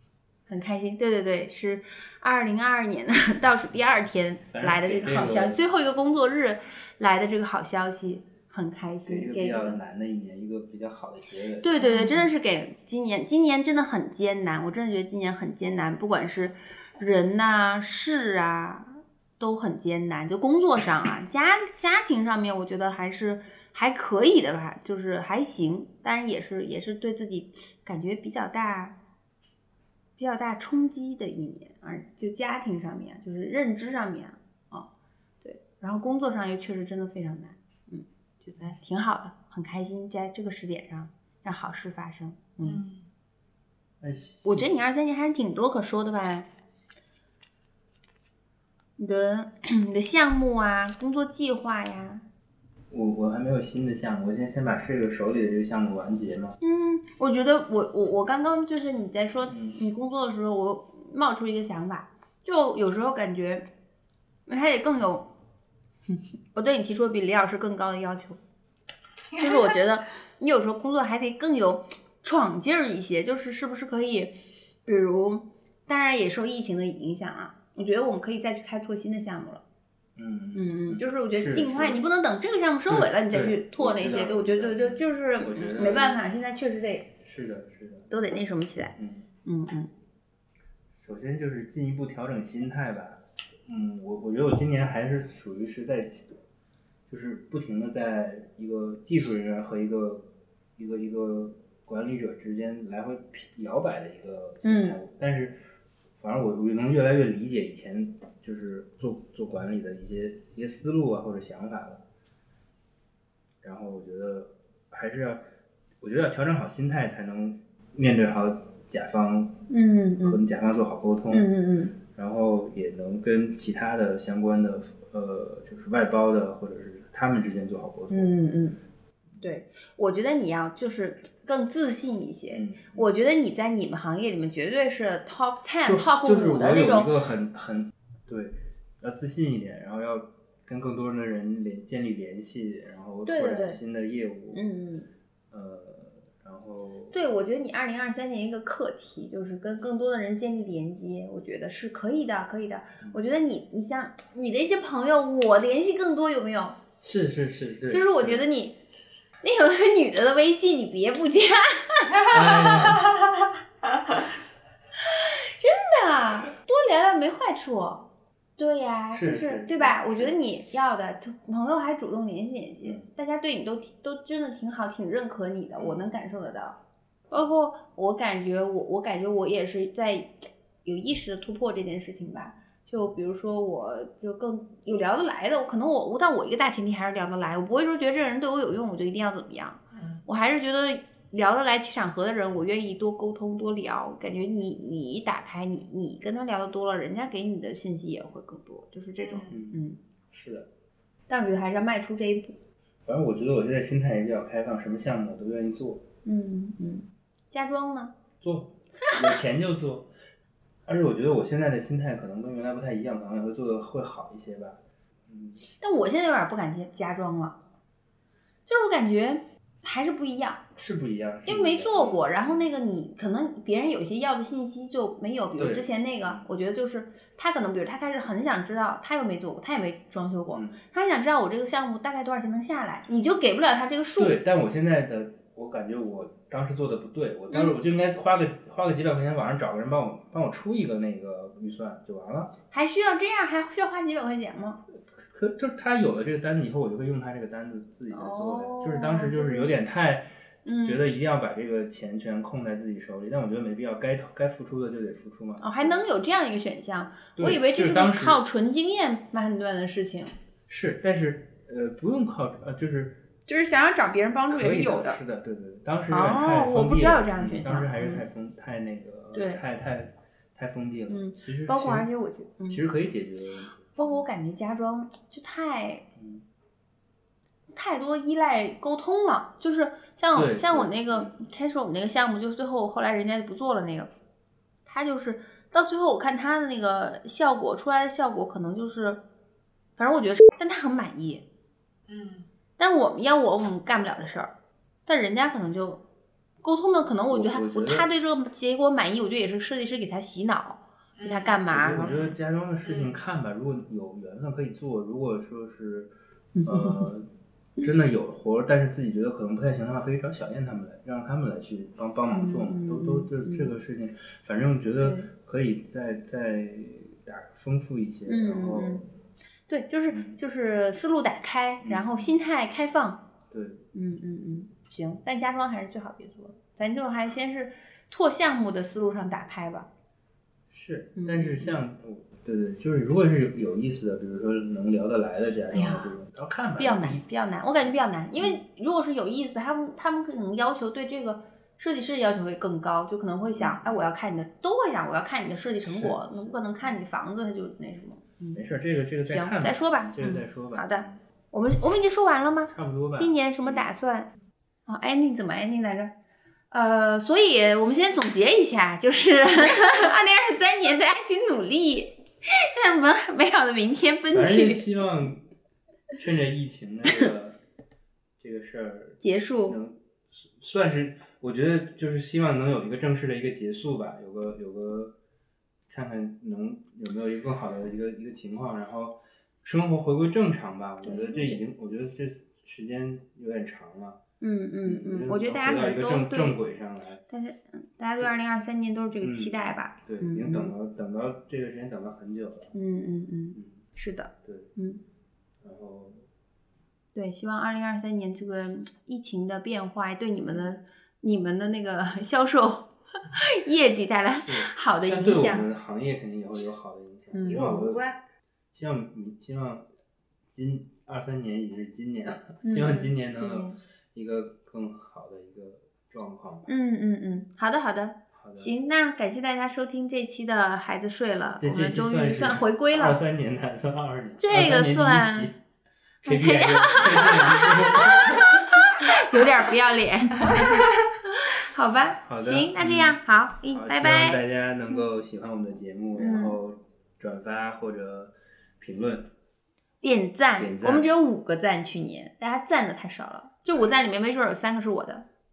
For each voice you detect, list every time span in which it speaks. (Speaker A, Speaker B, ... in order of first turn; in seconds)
Speaker A: 0.5-9.8, 11.6-28.9, 30.2-34.9, 35.4-42.8, 44.4-46.5, 49.0-52.2, 56.6-63.6, 64.5-65.3, 66.1-68.4, 69.3-79.6, 80.5-87.1, 88.1-89.9, 104.6-105.0, 119.7-120.4, 121.3-121.9, 128.1-128.8, 129.4-137.1, 143.2-143.8, 144.5-145.1, 147.1-156.8, 157.9-158.8, 159.4-162.7, 165.1-176.8, 177.3-200.0, 201.3-202.5, 206.2-208.1, 215.8-217.6, 218.7-220.6, 221.4-234.4, 242.7-244.8, 248.1-249.7, 250.6-251.0, 255.6-260.3, 263.5-265.2, 266.1-268.2, 269.3-269.6, 271.1-272.8, 273.9-276.0, 277.7-284.1, 284.9-289.2, 290.0-291.4, 292.8-294.5, 295.1-296.0, 296.6-302.3, 306.5-307.0, 312.3-313.7, 315.0-315.3, 318.2-319.0, 319.7-323.2, 323.9-329.9, 331.2-331.8, 335.7-336.1, 336.8-348.6, 349.3-354.3, 354.9-356.1, 356.7-364.9, 369.2-369.8, 381.0-381.6, 384.4-386.6, 387.3-390.7, 392.7-395.0, 397.1-405.7, 407.3-407.8, 412.6-413.8, 416.7-423.2, 424.4-425.5, 426.2-434.4, 436.1-436.6, 440.0-445.2
Speaker B: 4.5-5.6, 9.0-11.8, 44.0-44.7, 52.9-56.6, 59.5-59.8, 80.2-82.0, 82.9-86.2, 87.2-88.1, 89.0-89.2, 91.0-96.3, 97.1-105.6, 106.2-112.0, 113.6-115.4, 116.0-119.6, 120.2-121.5, 122.0-128.3, 132.5-133.1, 135.8-144.6, 145.5-147.1, 153.0-153.4, 157.0-158.4, 162.2-163.1, 169.1-170.4, 175.8-176.0, 199.5-200.7, 203.0-206.0, 208.4-210.1, 210.8-215.6, 220.8-222.7, 225.6-226.5, 234.2-242.5, 244.9-250.3, 250.8-256.0, 257.4-258.4, 260.7-263.2, 264.5-272.1, 272.7-274.2, 276.2-276.4, 280.3-281.4, 297.3-298.1, 301.7-306.1, 306.6-307.2, 307.8-319.1, 320.1-320.4, 321.8-322.4, 323.5-323.8, 330.7-337.2, 343.6-344.0, 345.8-346.9, 348.5-351.2, 352.7-353.9, 364.3-365.4, 366.1-367.6, 368.4-375.1, 375.9-384.2, 384.9-387.2, 389.2-392.7, 393.5-393.8, 394.4-394.7, 395.6-396.2, 404.4-408.0, 408.7-409.9, 410.5-416.7, 418.3-418.7, 421.6-425.6, 426.2-429.4, 432.2-439.3, 440.6-441.1
Speaker C: 11.8-12.3, 42.6-43.1, 189.9-190.2, 199.2-199.5, 292.1-292.5, 301.2-302.3, 302.8-303.1, 407.4-408.2